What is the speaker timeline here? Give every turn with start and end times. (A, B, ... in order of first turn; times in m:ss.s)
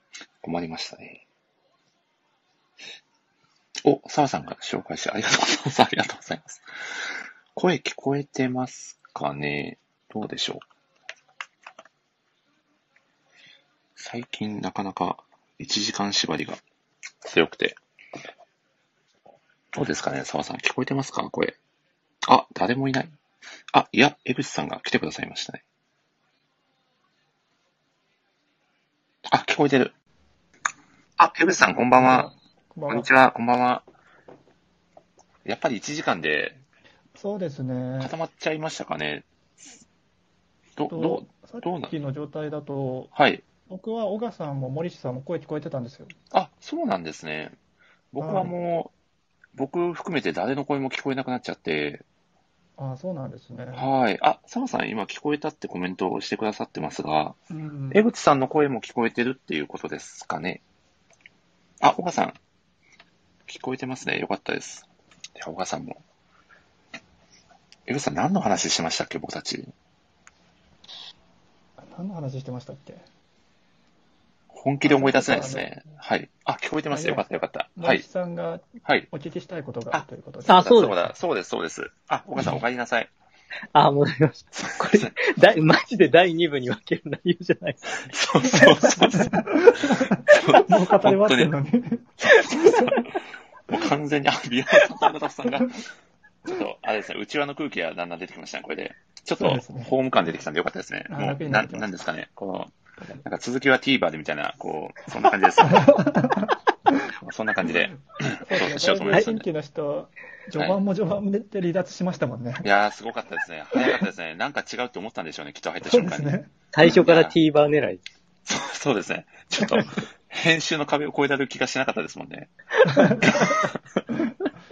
0:00.4-0:01.2 A
0:03.8-0:10.6 A
0:14.0-0:16.6 A
0:17.2-0:17.8 A
0:19.8-0:21.6 A
0:22.2-0:23.2 A
0:23.7-0:25.6 A
0:29.3-0:29.9 A
0:31.2-0:32.3 A
0:31.6-0:33.1 B
0:32.9-0:33.9 A
0:35.4-0:36.6 A
0:37.2-0:38.2 B
0:38.0-0:39.8 A
0:40.8-0:41.9 A
0:40.9-0:43.1 B
0:43.2-0:43.4 A
0:43.7-0:46.1 B
0:46.3-0:47.6 A
0:48.1-0:48.9 A
0:48.2-0:48.6 B
0:49.6-0:52.0 A
0:52.8-0:53.9 B
0:53.7-0:57.4 A
0:57.5-0:58.0 B
0:57.9-1:00.6 A
1:01.8-1:02.4 A
1:03.5-1:06.0 A
1:07.9-1:09.7 A
1:11.8-1:13.0 B
1:14.5-1:18.0 A
1:14.8-1:15.9 B
1:16.9-1:20.6 B
1:19.9-1:23.1 A
1:20.5-1:21.1 C
1:23.7-1:27.9 C
1:24.6-1:25.1 A
1:28.0-1:31.5 A
1:28.5-1:33.0 B
1:32.2-1:33.0 A
1:33.7-1:35.8 A
1:36.5-1:45.9 A
1:39.4-1:39.9 B
1:41.1-1:41.9 B
1:45.6-1:47.1 B
1:47.2-1:49.5 A
1:47.7-1:52.7 B
1:52.6-1:57.4 A
1:55.8-1:56.5 B
1:56.7-1:58.0 C
1:58.4-2:02.5 A
2:02.8-2:04.4 B
2:03.2-2:03.8 A